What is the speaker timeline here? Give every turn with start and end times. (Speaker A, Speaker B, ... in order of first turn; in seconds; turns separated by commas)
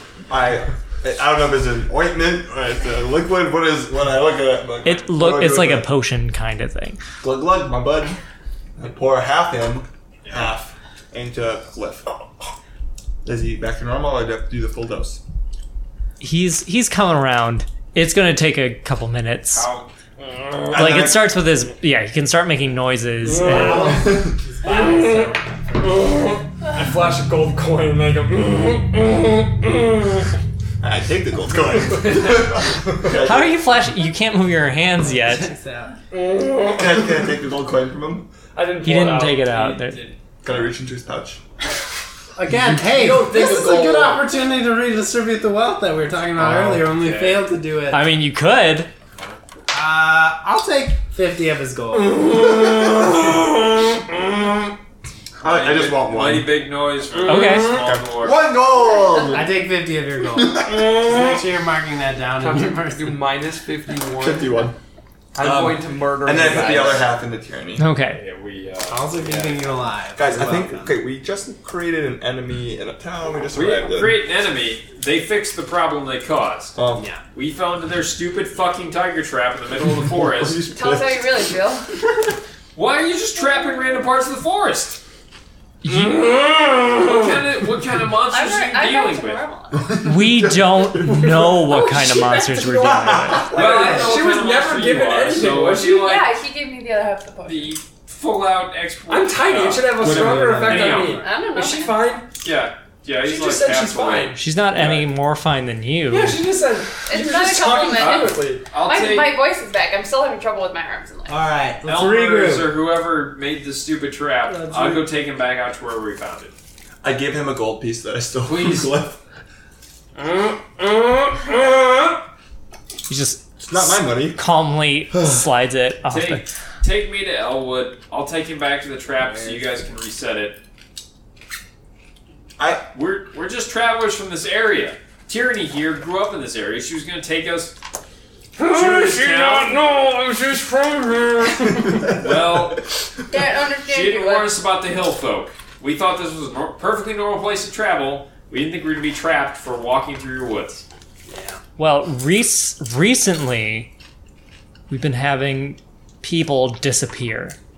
Speaker A: 0.3-5.9, Speaker B: 4.8-7.0, Speaker A: 7.2-8.2, Speaker A: 8.8-12.2, Speaker C: 10.2-10.5, Speaker A: 13.2-15.2, Speaker B: 16.2-19.7, Speaker C: 19.5-19.9, Speaker D: 20.2-20.8, Speaker A: 20.7-21.4, Speaker B: 20.8-24.1, Speaker D: 23.2-23.7, Speaker A: 23.4-24.4, Speaker E: 23.5-25.9, Speaker D: 24.7-30.0, Speaker A: 30.8-33.7, Speaker B: 33.2-35.5, Speaker E: 35.0-36.0, Speaker D: 36.1-36.9, Speaker A: 36.7-38.3, Speaker D: 38.5-39.8, Speaker B: 38.8-40.1, Speaker C: 39.3-40.1, Speaker A: 40.4-41.4, Speaker E: 42.4-48.1, Speaker D: 42.9-44.2, Speaker B: 46.4-46.8, Speaker C: 46.9-47.5, Speaker B: 47.9-48.9, Speaker E: 49.7-52.2, Speaker A: 55.4-56.5, Speaker C: 55.4-58.4, Speaker D: 57.2-57.8, Speaker B: 57.2-57.8, Speaker A: 57.7-59.5, Speaker E: 59.3-63.2, Speaker D: 60.8-61.1, Speaker D: 62.4-64.6, Speaker A: 64.1-64.8, Speaker D: 65.3-67.1, Speaker A: 65.4-67.8, Speaker B: 67.8-68.2, Speaker C: 68.1-69.7, Speaker E: 68.9-71.0, Speaker A: 70.2-74.2, Speaker C: 73.5-76.8, Speaker A: 76.8-77.0, Speaker E: 76.9-77.2, Speaker C: 77.3-80.6, Speaker A: 79.9-81.5, Speaker F: 80.7-81.9, Speaker C: 82.8-85.0, Speaker B: 85.8-86.2, Speaker D: 85.9-87.3, Speaker C: 86.9-89.4, Speaker F: 88.3-89.8, Speaker A: 89.7-91.5, Speaker B: 90.0-93.6, Speaker D: 91.8-92.8, Speaker F: 92.0-92.7, Speaker A: 92.8-94.0, Speaker D: 93.4-96.2, Speaker C: 93.5-96.3, Speaker F: 95.7-97.8, Speaker C: 97.5-101.2, Speaker D: 99.1-102.3, Speaker E: 100.0-101.2, Speaker F: 101.2-102.0, Speaker C: 102.4-105.1, Speaker D: 103.1-104.4, Speaker B: 104.3-106.5, Speaker D: 106.1-108.7, Speaker F: 107.1-111.4, Speaker C: 108.0-109.3, Speaker E: 111.3-112.8, Speaker C: 111.8-116.5, Speaker E: 114.5-115.0, Speaker A: 117.0-119.2, Speaker D: 118.5-118.9, Speaker D: 120.2-122.2, Speaker B: 123.1-126.5, Speaker A: 123.6-124.4, Speaker C: 126.1-130.6, Speaker A: 132.6-132.8, Speaker C: 132.9-137.8, Speaker D: 138.6-142.0, Speaker C: 138.6-139.8, Speaker C: 142.1-142.9, Speaker F: 143.3-144.6, Speaker C: 143.8-150.8, Speaker E: 151.3-151.6, Speaker B: 151.8-153.9, Speaker B: 154.9-157.6